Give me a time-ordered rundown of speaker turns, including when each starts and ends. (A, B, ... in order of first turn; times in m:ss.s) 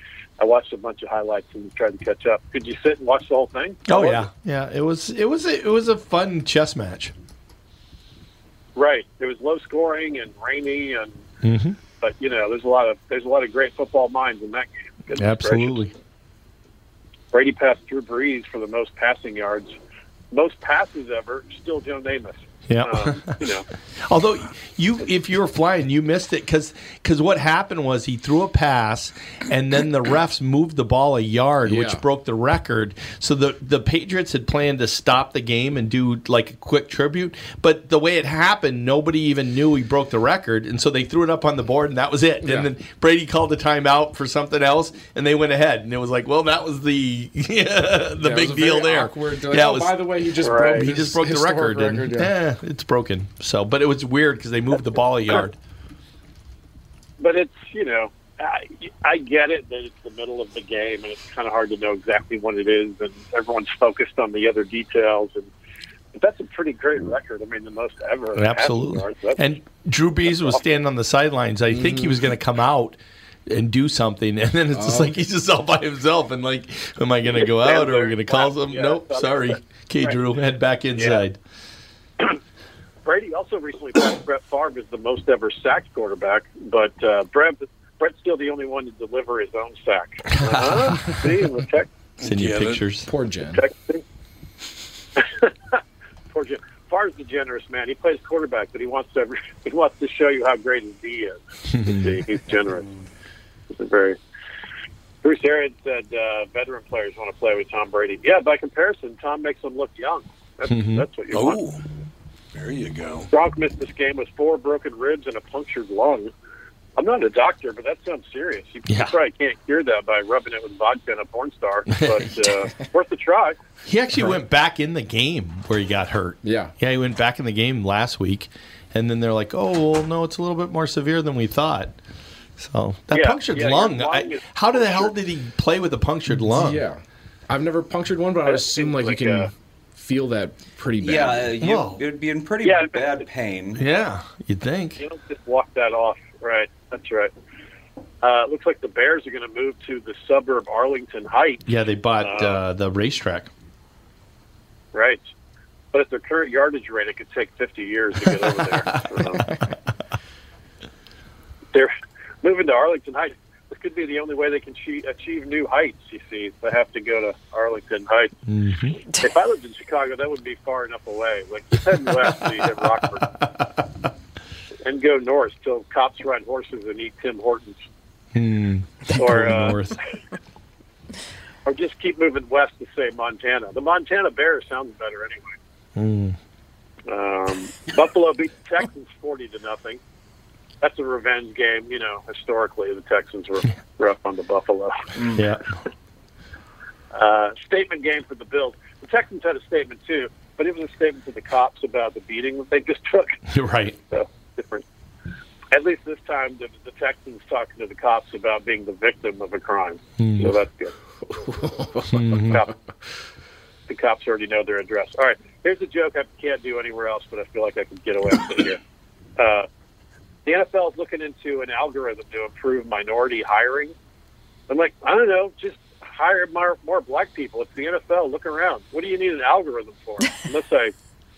0:00.4-0:04.3 A
0:03.9-0:07.1 B
0:08.8-0:11.2 A
0:11.4-0:11.8 B
0:12.0-0:15.8 A
0:15.1-0:15.9 B
0:17.3-0:19.7 A
0:20.3-0:23.7 A
0:22.7-0:23.5 B
0:24.0-0:50.1 B
0:31.7-0:32.0 C
0:42.4-0:42.7 C
0:48.2-0:52.3 C
0:50.4-0:50.9 A
0:50.6-0:55.6 B
0:57.2-1:05.5 A
1:06.2-1:09.5 A
1:08.4-1:21.4 B
1:10.3-1:10.6 A
1:11.7-1:12.2 C
1:14.7-1:15.2 C
1:17.3-1:20.2 A
1:21.0-1:21.2 A
1:23.0-1:31.9 A
1:30.3-1:31.3 B
1:32.2-1:32.8 D
1:32.2-1:33.1 B
1:33.0-1:33.6 C
1:33.5-1:34.0 A
1:35.2-1:35.8 A
1:36.3-1:42.9 A
1:41.7-1:42.1 B
1:43.7-1:44.2 A
1:45.2-1:51.6 A
1:50.7-1:51.1 B
1:51.3-1:51.8 D
1:52.5-1:53.3 D
1:53.3-1:56.3 A
1:57.0-2:03.6 A
1:58.9-1:59.2 B
2:01.9-2:02.5 B
2:03.9-2:12.0 B
2:06.4-2:06.7 C
2:12.6-2:16.8 B
2:13.1-2:15.1 A
2:16.3-2:21.5 C
2:18.5-2:19.5 A
2:21.0-2:23.8 E
2:21.6-2:22.0 B
2:22.6-2:23.2 A
2:23.8-2:25.0 B
2:25.0-2:27.3 A
2:28.2-2:31.7 A
2:31.7-2:33.5 B
2:32.2-2:32.6 A
2:34.9-2:35.2 A
2:35.9-2:39.4 A
2:38.9-2:39.6 B
2:41.7-2:48.3 A
2:48.5-2:49.0 B
2:49.1-2:53.3 A
2:54.8-2:57.8 A
2:58.4-3:00.0 B
2:59.1-2:59.8 A
3:01.7-3:05.6 A
3:06.0-3:06.4 B
3:07.1-3:10.0 A
3:10.8-3:15.2 A
3:15.3-3:15.7 B
3:17.1-3:23.4 A
3:23.5-3:24.0 B
3:24.1-3:24.8 A
3:25.7-3:30.9 A
3:30.2-3:30.5 B
3:31.3-3:32.7 C
3:32.1-3:32.6 B
3:32.3-3:32.7 A
3:33.9-3:38.8 A
3:39.4-3:39.7 A
3:40.5-3:43.9 A
3:44.7-3:50.9 A